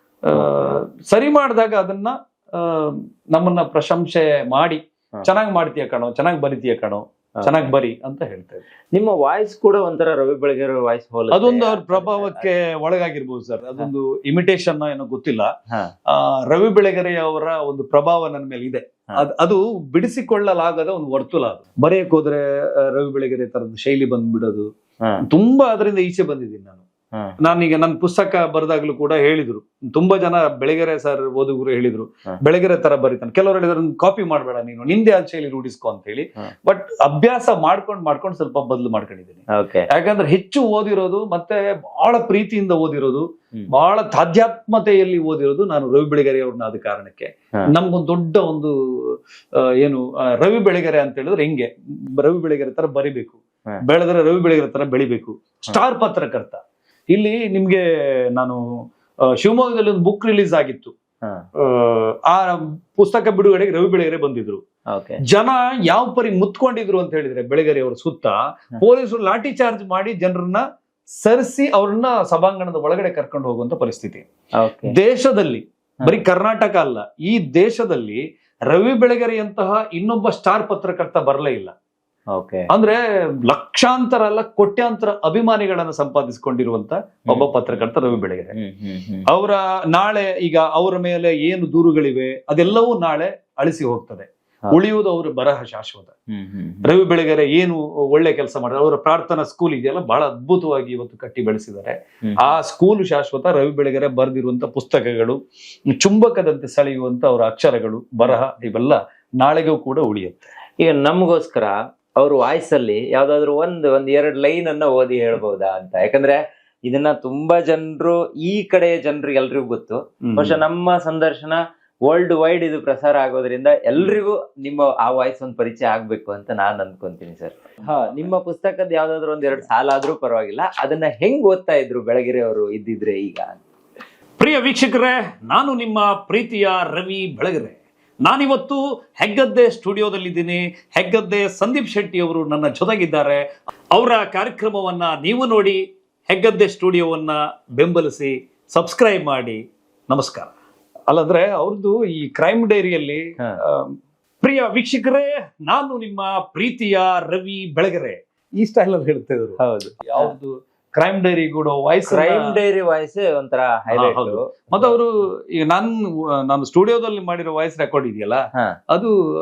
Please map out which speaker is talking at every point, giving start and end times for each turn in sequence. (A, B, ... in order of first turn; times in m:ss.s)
0:00.2-0:08.6 A
0:00.3-0:00.8 B
0:07.4-0:07.7 B
0:08.9-0:12.5 B
0:11.3-0:15.5 A
0:16.1-0:24.7 A
0:25.2-0:26.8 A
0:27.1-0:27.4 B
0:27.4-0:58.8 A
0:39.5-0:39.9 B
0:59.4-1:00.9 A
1:01.6-1:04.6 A
1:04.9-1:05.2 B
1:05.3-1:10.6 A
1:11.2-1:14.2 A
1:14.6-1:14.9 B
1:14.9-1:21.7 A
1:22.3-1:22.7 B
1:22.7-1:28.5 A
1:27.3-1:28.0 B
1:28.5-1:29.2 B
1:29.3-1:36.1 A
1:36.3-1:36.8 B
1:36.8-1:50.5 A
1:50.8-2:13.6 B
2:00.2-2:00.6 A
2:14.4-2:30.5 A
2:31.1-2:42.6 A
2:39.6-2:40.3 B
2:42.1-2:45.0 B
2:43.9-2:49.1 A